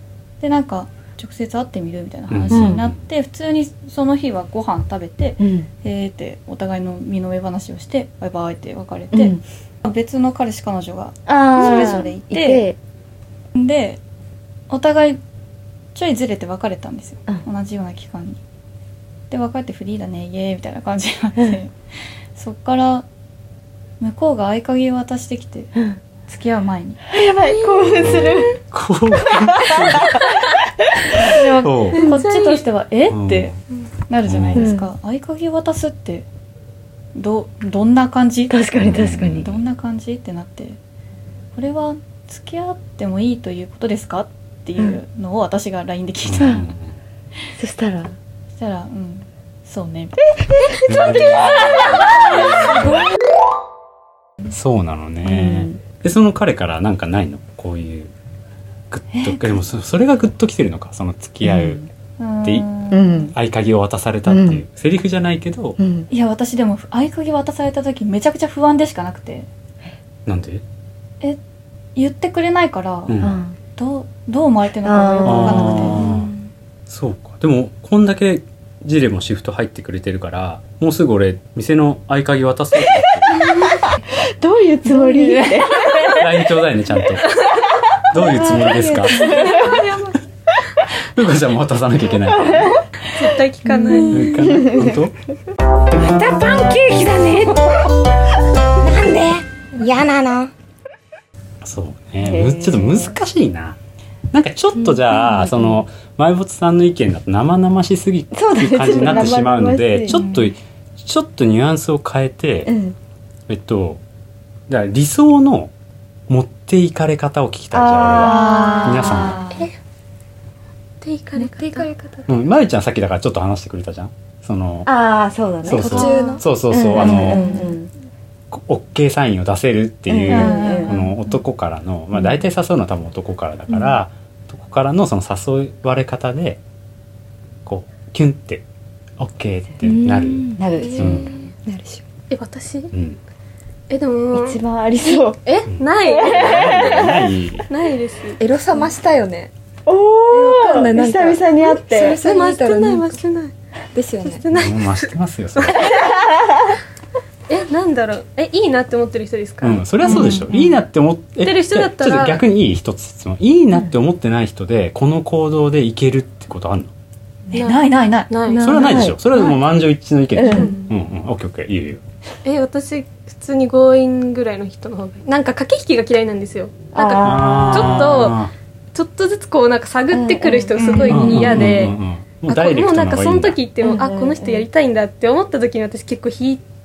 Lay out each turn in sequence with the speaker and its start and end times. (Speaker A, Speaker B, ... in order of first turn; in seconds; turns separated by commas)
Speaker A: 0.4-12.7, Speaker B: 2.3-3.0, Speaker C: 2.5-2.8, Speaker C: 5.4-5.7, Speaker C: 9.1-9.4, Speaker C: 11.3-12.8, Speaker A: 13.6-14.0, Speaker A: 14.7-15.2, Speaker A: 15.9-18.4, Speaker A: 19.3-21.7, Speaker A: 22.4-23.1, Speaker A: 24.0-25.7, Speaker A: 26.3-27.0, Speaker C: 27.1-28.6, Speaker D: 27.5-28.4, Speaker B: 28.0-30.2, Speaker C: 29.3-31.4, Speaker A: 31.2-33.5, Speaker B: 31.6-32.0, Speaker D: 32.0-32.6, Speaker B: 33.1-33.6, Speaker A: 34.1-36.3, Speaker B: 34.3-34.7, Speaker C: 34.5-34.9, Speaker A: 37.1-38.6, Speaker C: 38.5-39.5, Speaker B: 38.8-39.6, Speaker A: 39.3-40.8, Speaker A: 41.5-46.7, Speaker B: 46.3-46.8, Speaker C: 46.4-46.6, Speaker C: 47.6-48.1, Speaker A: 48.6-50.2, Speaker C: 50.4-53.0, Speaker B: 50.9-52.0, Speaker B: 54.5-58.1, Speaker C: 55.2-55.8, Speaker B: 58.9-61.8, Speaker A: 59.1-59.6, Speaker C: 61.5-61.8, Speaker A: 62.2-63.3, Speaker B: 62.4-62.7, Speaker C: 62.9-63.3, Speaker B: 63.3-65.8, Speaker C: 64.3-64.6, Speaker C: 65.8-66.1, Speaker A: 66.1-69.5, Speaker B: 70.3-70.6, Speaker A: 72.0-76.1, Speaker B: 73.1-73.3, Speaker C: 73.2-73.6, Speaker C: 74.8-76.2, Speaker B: 75.2-76.3, Speaker B: 76.9-83.4, Speaker C: 83.4-86.3, Speaker A: 84.9-86.1, Speaker B: 86.1-87.4, Speaker B: 88.1-89.4, Speaker C: 88.1-89.8, Speaker D: 89.0-90.2, Speaker B: 91.0-92.8, Speaker C: 92.5-92.8, Speaker D: 93.1-94.3, Speaker C: 93.8-95.0, Speaker B: 94.1-95.2, Speaker C: 96.0-97.6, Speaker E: 98.8-100.5, Speaker C: 99.0-99.3, Speaker B: 101.6-103.8, Speaker C: 102.2-103.2, Speaker B: 104.3-112.7, Speaker C: 105.2-105.8, Speaker C: 108.3-110.2, Speaker A: 110.1-110.5, Speaker C: 112.7-113.0, Speaker B: 113.5-114.0, Speaker B: 114.7-115.7, Speaker B: 116.3-119.4, Speaker C: 117.7-119.5, Speaker A: 118.1-119.7, Speaker D: 121.0-121.9, Speaker E: 121.4-122.5, Speaker B: 122.3-124.9, Speaker C: 124.9-127.9, Speaker B: 125.6-127.5, Speaker E: 125.7-126.5, Speaker A: 127.0-127.6, Speaker B: 128.5-136.6, Speaker C: 130.1-131.1, Speaker A: 130.3-131.2, Speaker B: 137.7-138.7, Speaker B: 139.2-141.3, Speaker C: 139.8-141.4, Speaker D: 140.9-141.4, Speaker E: 141.7-142.0, Speaker D: 142.3-142.9, Speaker B: 142.9-143.2, Speaker D: 143.9-148.4, Speaker C: 144.3-145.4, Speaker B: 145.7-147.7, Speaker C: 146.0-147.2, Speaker E: 148.4-149.5, Speaker C: 149.9-152.2, Speaker E: 150.3-153.2, Speaker D: 152.0-153.5, Speaker E: 153.9-154.4, Speaker D: 154.2-156.3, Speaker B: 154.5-156.0, Speaker C: 155.9-156.8, Speaker D: 157.5-159.8, Speaker B: 159.6-166.9, Speaker A: 160.1-160.5, Speaker C: 160.1-160.7, Speaker D: 161.4-162.4, Speaker A: 167.5-168.4, Speaker D: 167.5-168.9, Speaker E: 168.5-169.1, Speaker B: 168.6-172.0, Speaker C: 168.7-169.2, Speaker C: 170.4-170.8, Speaker D: 170.5-170.8, Speaker D: 172.4-178.4, Speaker C: 176.9-178.0, Speaker B: 177.2-178.5, Speaker D: 178.9-186.6, Speaker C: 180.1-181.7, Speaker A: 180.8-181.4, Speaker B: 181.1-183.6, Speaker C: 183.8-184.7